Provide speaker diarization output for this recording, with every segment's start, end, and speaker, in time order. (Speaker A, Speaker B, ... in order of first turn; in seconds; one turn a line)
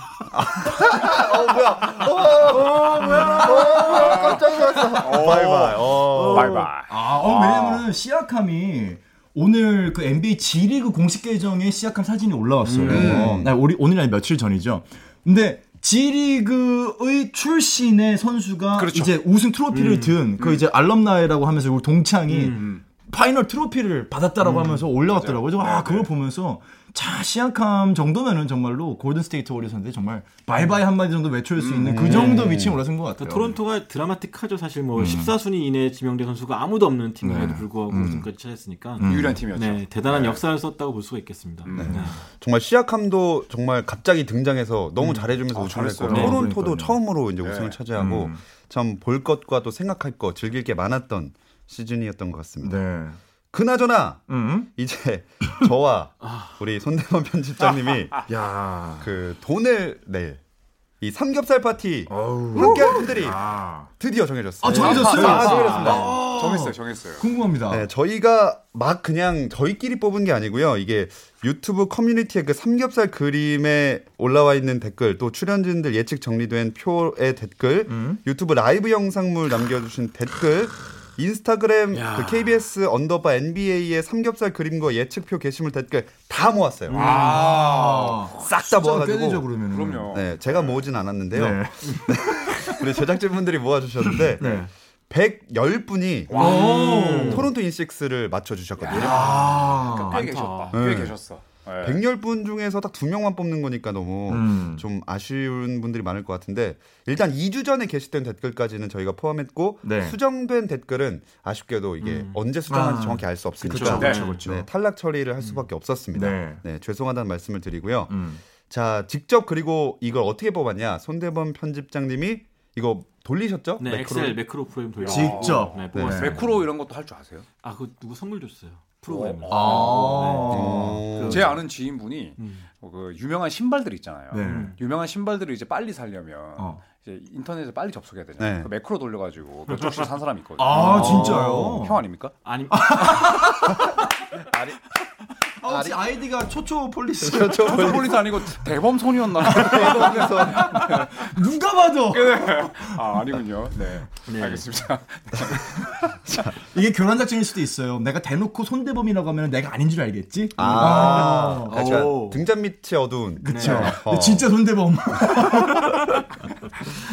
Speaker A: 0.3-6.7
Speaker B: 0.7-1.3
Speaker B: 2.2-5.5
Speaker C: 3.6-7.9
Speaker B: 6.1-33.6
Speaker D: 12.6-13.2
Speaker C: 12.8-13.4
Speaker A: 12.9-13.6
Speaker C: 18.7-19.1
Speaker D: 19.7-20.2
Speaker C: 20.4-20.6
Speaker D: 22.3-22.8
Speaker C: 22.5-22.8
Speaker D: 24.4-24.8
Speaker C: 25.0-26.1
Speaker C: 31.6-32.4
Speaker A: 31.8-32.8
Speaker D: 32.1-32.6
Speaker D: 33.2-42.2
Speaker B: 35.0-35.3
Speaker B: 37.2-38.2
Speaker B: 39.0-39.4
Speaker C: 39.0-40.4
Speaker C: 41.6-42.0
Speaker A: 41.7-52.8
Speaker B: 41.8-42.2
Speaker C: 45.5-46.5
Speaker D: 46.1-46.4
Speaker B: 46.1-47.0
Speaker C: 47.4-47.8
Speaker B: 48.0-48.4
Speaker B: 52.6-53.2
Speaker A: 53.5-58.2
Speaker B: 54.3-54.7
Speaker D: 56.2-56.5
Speaker C: 57.8-58.3
Speaker B: 58.3-59.1
Speaker A: 59.0-60.4
Speaker A: 61.0-66.2
Speaker B: 62.1-63.9
Speaker B: 64.6-67.9
Speaker C: 64.7-67.2
Speaker D: 65.2-66.0
Speaker A: 67.7-87.0
Speaker B: 77.9-78.2
Speaker D: 81.9-82.6
Speaker D: 86.9-87.5
Speaker C: 86.9-88.4
Speaker B: 86.9-90.1
Speaker A: 88.4-89.5
Speaker C: 89.6-90.8
Speaker A: 90.1-96.4
Speaker B: 91.3-93.0
Speaker B: 94.1-94.7
Speaker C: 96.3-97.2
Speaker D: 96.3-97.5
Speaker B: 96.4-97.5
Speaker A: 97.2-99.4
Speaker C: 98.8-102.0
Speaker D: 98.9-100.8
Speaker B: 99.0-100.2
Speaker A: 100.7-101.2
Speaker A: 101.8-124.4
Speaker B: 104.3-104.9
Speaker B: 109.8-110.2
Speaker D: 112.0-112.4
Speaker B: 112.7-114.7
Speaker D: 113.7-114.4
Speaker C: 113.9-114.4
Speaker B: 116.1-116.6
Speaker B: 118.1-118.4
Speaker D: 123.8-126.7
Speaker C: 125.0-127.5
Speaker B: 125.1-126.3
Speaker D: 127.6-131.6
Speaker C: 129.1-130.4
Speaker B: 129.5-131.0
Speaker A: 130.5-131.6
Speaker C: 131.2-142.3
Speaker D: 132.4-132.6
Speaker B: 134.3-134.8
Speaker D: 134.4-134.8
Speaker B: 136.6-136.8
Speaker A: 138.4-138.7
Speaker B: 140.6-142.0
Speaker D: 140.7-141.6
Speaker A: 140.7-141.9
Speaker D: 142.4-143.6
Speaker B: 142.7-144.0
Speaker A: 143.7-144.8
Speaker B: 145.6-148.2
Speaker A: 145.6-146.0
Speaker A: 147.2-148.3
Speaker C: 147.6-151.3
Speaker A: 149.4-150.8
Speaker B: 149.4-153.1
Speaker C: 152.1-156.1
Speaker D: 154.3-154.7
Speaker B: 156.7-161.7
Speaker A: 160.6-164.5
Speaker D: 160.6-162.4
Speaker B: 163.4-166.2
Speaker D: 163.4-163.9
Speaker A: 165.4-166.2